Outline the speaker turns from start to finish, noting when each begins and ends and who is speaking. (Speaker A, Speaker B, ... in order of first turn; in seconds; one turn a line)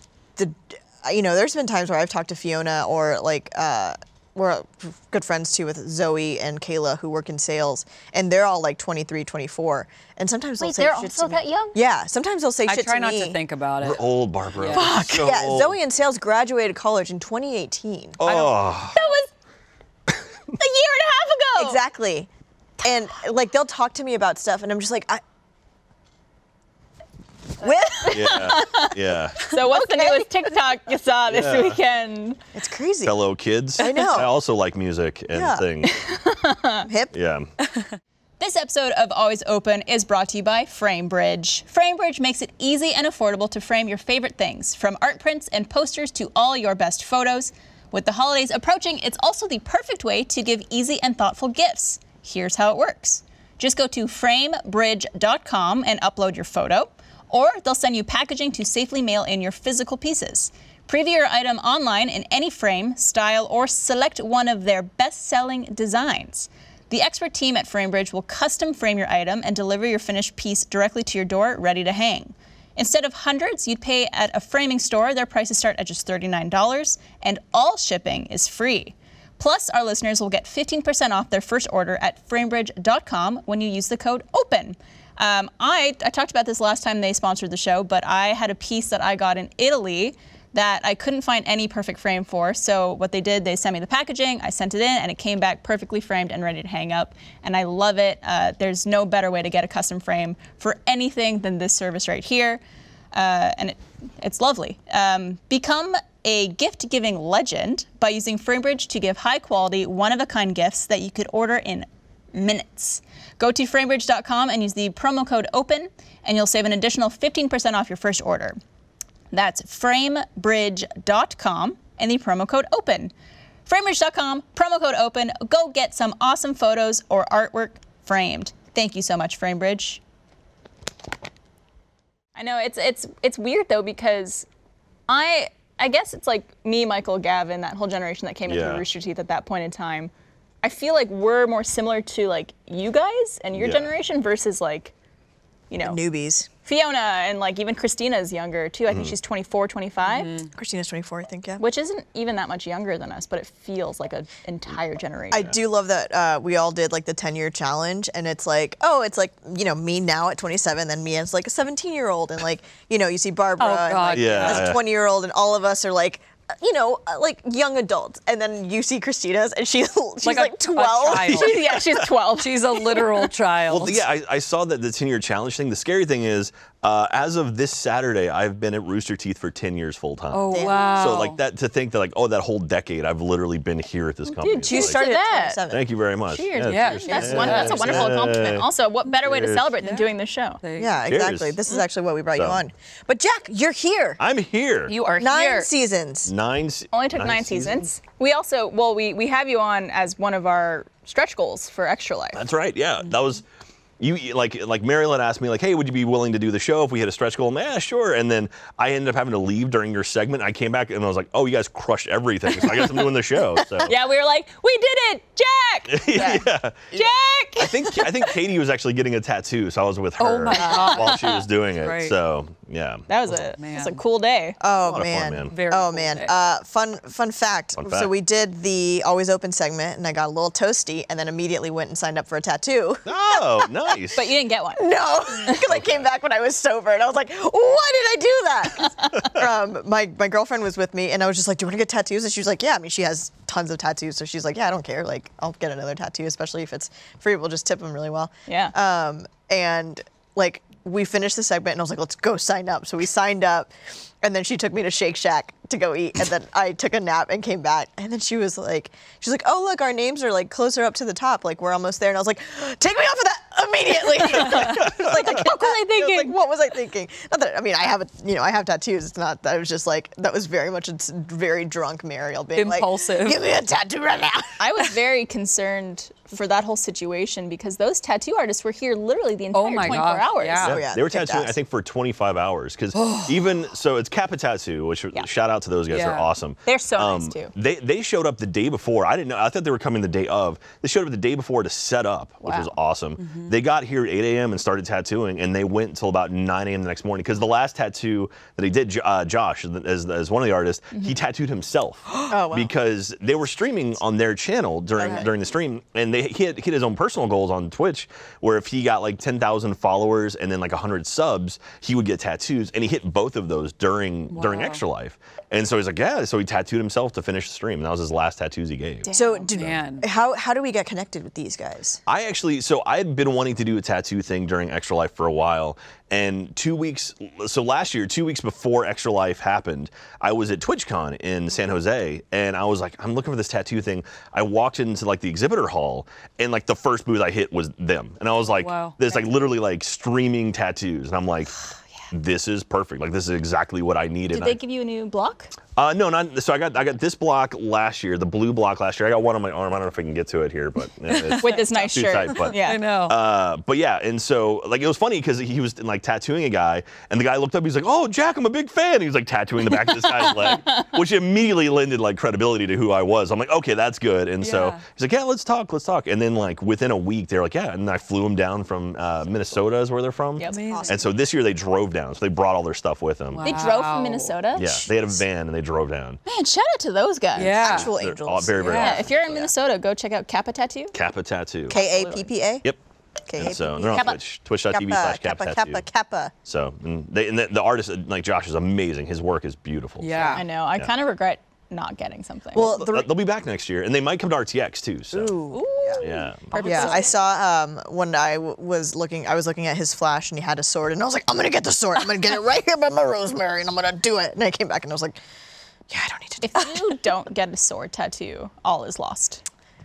Speaker A: 0.3-13.4
Speaker B: 10.6-11.8
Speaker C: 12.6-14.0
Speaker D: 13.8-15.8
Speaker C: 14.6-14.9
Speaker A: 14.7-18.2
Speaker D: 18.2-19.0
Speaker B: 18.2-19.3
Speaker B: 20.5-21.8
Speaker A: 21.5-22.3
Speaker A: 22.8-25.2
Speaker A: 27.6-28.7
Speaker B: 28.0-32.4
Speaker D: 28.1-29.5
Speaker A: 29.6-30.3
Speaker D: 31.3-31.8
Speaker A: 32.5-33.2
Speaker D: 33.0-35.9
Speaker A: 33.8-34.4
Speaker A: 35.3-35.6
Speaker B: 35.8-36.9
Speaker A: 36.9-37.1
Speaker D: 37.1-37.5
Speaker B: 38.4-102.6
Speaker B: 103.1-118.6
Speaker B: 119.3-123.1
Speaker B: 123.7-130.0
Speaker B: 132.3-134.4
Speaker B: 135.1-140.1
Speaker D: 138.5-138.8
Speaker B: 140.6-144.9
Speaker D: 143.5-143.9
Speaker B: 145.7-146.0
Speaker A: 145.8-146.5
Speaker B: 146.6-150.3
Speaker D: 148.9-149.1
Speaker C: 150.1-150.5
Speaker A: 150.5-151.6
Speaker B: 151.6-155.5
Speaker A: 155.3-171.7
Speaker C: 163.6-164.7
Speaker D: 164.1-164.8
Speaker C: 170.2-171.7
Speaker B: 171.2-173.1
Speaker C: 172.3-174.0
Speaker D: 173.7-185.0
Speaker C: 180.3-181.4
Speaker A: 180.5-181.0
Speaker B: 184.3-185.6
Speaker A: 184.7-185.8
Speaker D: 185.7-189.7
Speaker B: 186.3-190.6
Speaker C: 186.6-188.2
Speaker A: 187.0-188.0
Speaker C: 189.8-190.1
Speaker C: 190.6-191.0
Speaker A: 190.8-194.2
Speaker D: 191.1-191.6
Speaker D: 192.3-192.6
Speaker D: 194.2-194.9
Speaker C: 194.9-195.7
Speaker A: 195.2-196.3
Speaker D: 196.2-197.9
Speaker B: 196.9-202.4
Speaker D: 202.3-203.4
Speaker D: 204.0-213.9
Speaker B: 213.8-218.3
Speaker D: 215.9-217.0
Speaker D: 217.6-223.4
Speaker C: 220.2-222.1
Speaker A: 220.6-221.0
Speaker B: 223.1-224.6
Speaker C: 223.6-224.0
Speaker A: 224.6-233.7
Speaker D: 224.8-225.5
Speaker C: 225.5-226.3
Speaker D: 227.8-228.1
Speaker D: 233.1-234.3
Speaker B: 234.1-234.8
Speaker A: 234.8-274.6
Speaker D: 235.7-236.0
Speaker B: 248.5-248.7
Speaker B: 264.3-266.3
Speaker D: 264.6-265.1
Speaker C: 272.5-273.4
Speaker B: 274.6-280.7
Speaker C: 279.5-280.8
Speaker D: 280.6-319.1
Speaker A: 280.6-281.6
Speaker C: 282.9-283.4
Speaker C: 285.9-286.3
Speaker B: 286.6-287.5
Speaker B: 292.4-292.7
Speaker C: 293.2-293.5
Speaker A: 302.2-302.7
Speaker A: 305.0-305.3
Speaker C: 314.3-314.8
Speaker B: 319.1-319.5
Speaker A: 319.1-322.0
Speaker C: 319.5-320.1
Speaker D: 322.1-341.5
Speaker C: 338.5-339.0
Speaker D: 342.1-344.6
Speaker B: 344.3-345.5
Speaker D: 345.8-373.5
Speaker C: 351.1-351.6
Speaker B: 351.4-352.8
Speaker C: 352.3-353.2
Speaker B: 360.2-360.6
Speaker C: 364.4-364.8
Speaker C: 370.4-370.9
Speaker A: 370.6-371.1
Speaker C: 373.3-374.3
Speaker B: 373.4-374.9
Speaker D: 374.5-376.2
Speaker B: 376.2-377.6
Speaker C: 377.3-377.9
Speaker A: 377.4-378.9
Speaker D: 377.6-379.5
Speaker C: 378.6-379.0
Speaker B: 378.7-380.9
Speaker D: 380.9-381.8
Speaker A: 381.7-382.6
Speaker B: 381.7-382.3
Speaker A: 383.3-384.1
Speaker D: 383.3-385.8
Speaker B: 383.8-384.2
Speaker A: 384.7-386.3
Speaker D: 386.4-390.9
Speaker C: 390.0-390.4
Speaker B: 390.3-392.8
Speaker A: 392.5-393.1
Speaker D: 392.5-395.4
Speaker A: 395.1-396.0
Speaker B: 395.5-397.2
Speaker D: 396.0-396.8
Speaker C: 396.6-397.0
Speaker A: 396.6-405.2
Speaker A: 405.9-407.0
Speaker B: 406.4-409.4